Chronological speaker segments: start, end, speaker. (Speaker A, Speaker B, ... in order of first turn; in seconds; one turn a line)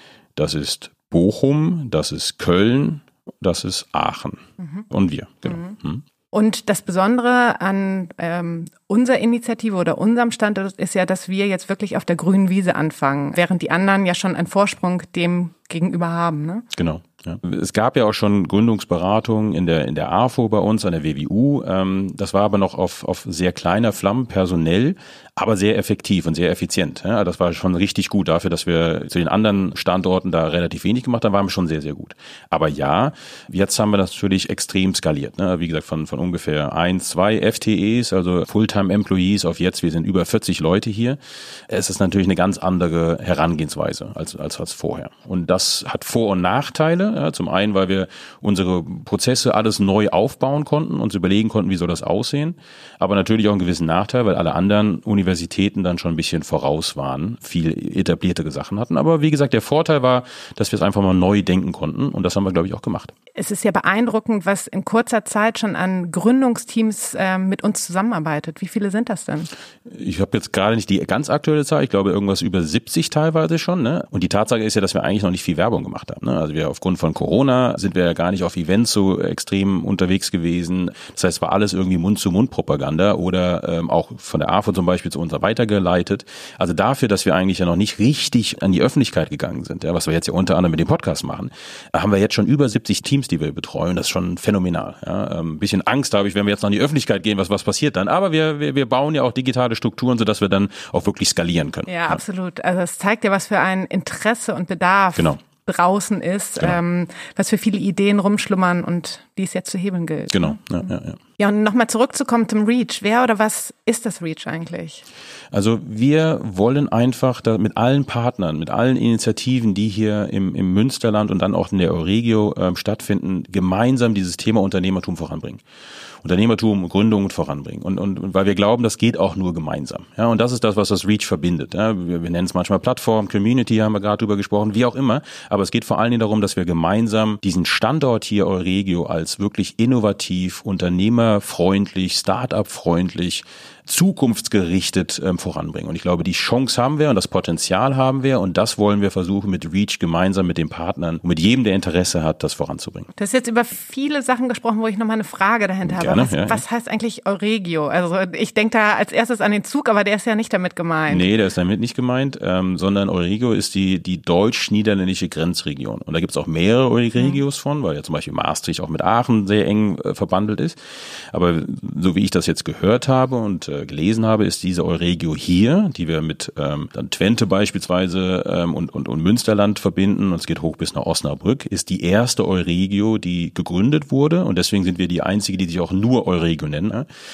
Speaker A: 0.3-4.4
Speaker B: 4.6-4.8
Speaker A: 4.9-6.0
Speaker B: 5.5-5.8
Speaker B: 6.3-16.6
Speaker A: 16.7-63.1
Speaker B: 63.3-69.5
Speaker A: 69.9-102.2
Speaker B: 101.9-115.0
Speaker A: 110.3-111.2
Speaker A: 115.5-125.6
Speaker A: 126.2-153.1
Speaker B: 153.1-161.3
Speaker A: 155.8-156.6
Speaker A: 161.1-170.8
Speaker A: 171.3-187.1